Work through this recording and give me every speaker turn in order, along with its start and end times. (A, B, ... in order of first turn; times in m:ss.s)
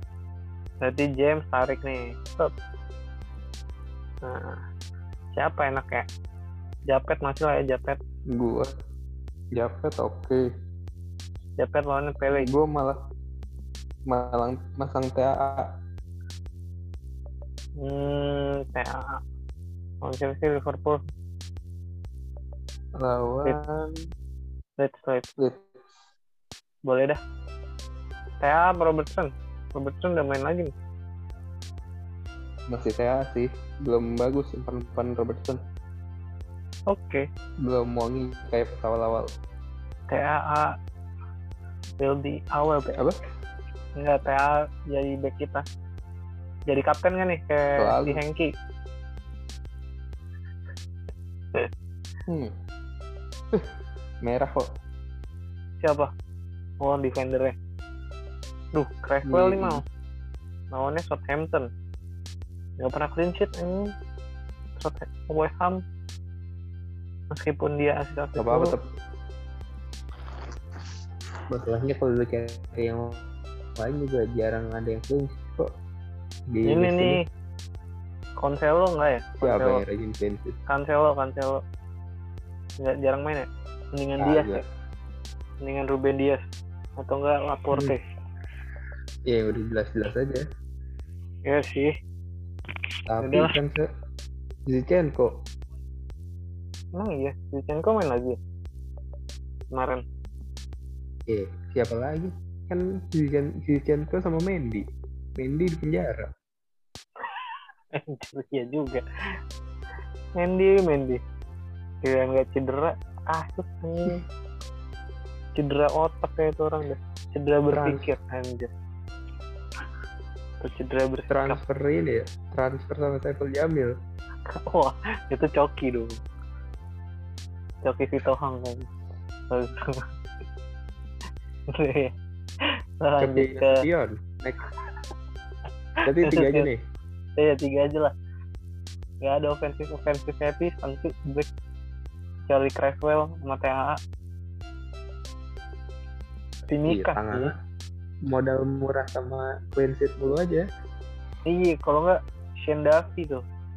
0:00.8-0:02.5 A
0:04.2-0:04.6 A
0:05.3-0:06.1 A
0:06.9-0:08.0 A
0:08.3-0:08.7 B
0:09.5-0:10.4 B
0:11.6-0:12.5 A
0:12.3-0:13.0 B
0:14.1-0:15.7 B
0:17.8-0:19.2 A
0:20.0-0:21.0 A
0:23.0-0:23.8 B
0:24.8-0:25.3 A
0:25.4-0:25.8 B
0:26.8-0:27.2 A
0:28.4-0:30.7 A
0:32.7-0:35.6 B
0:36.9-0:37.2 A
0:37.6-0:39.3 B
0:40.1-0:40.8 A
0:42.0-0:43.0 A
0:44.0-0:45.6 A
0:46.7-0:48.5 A
0:47.8-0:48.2 B
0:52.3-0:52.5 B
0:54.2-0:54.6 B
0:55.8-0:56.1 A
0:56.8-0:57.6 A
0:58.7-0:59.8 A
0:59.2-0:59.8 B
1:00.7-1:01.7 A
1:02.8-1:03.9 A
1:04.8-1:05.8 A
1:07.3-1:08.7 A
1:08.4-1:08.8 B
1:11.5-1:13.2 B
1:13.8-1:15.7 B
1:16.5-1:17.2 B
1:16.6-1:17.2 A
1:18.4-1:19.8 A
1:19.4-1:20.6 B
1:20.7-1:21.6 A
1:22.8-1:24.6 A
1:24.2-1:24.6 B
1:25.6-1:26.4 A
1:27.0-1:28.0 A
1:29.3-1:30.4 B
1:31.4-1:31.9 A
1:33.1-1:33.8 B
1:33.2-1:33.5 A
1:34.7-1:35.3 B
1:36.9-1:38.4 A
1:39.7-1:40.0 A
1:41.3-1:44.8 B
1:45.4-1:46.3 B
1:47.9-1:49.0 A
1:50.4-1:51.2 A
1:52.0-1:54.2 A
1:55.6-1:58.7 A
1:57.7-1:58.1 B
2:00.6-2:01.6 A
2:01.3-2:03.9 B
2:04.5-2:06.2 A
2:07.8-2:08.9 A
2:09.5-2:10.1 A
2:11.7-2:13.8 A
2:13.2-2:14.6 B
2:16.0-2:16.8 B
2:16.2-2:16.7 A
2:17.4-2:18.1 A
2:19.2-2:21.5 A
2:22.5-2:24.0 A
2:26.7-2:27.5 A
2:26.8-2:27.5 B
2:28.3-2:30.7 B
2:31.4-2:33.4 A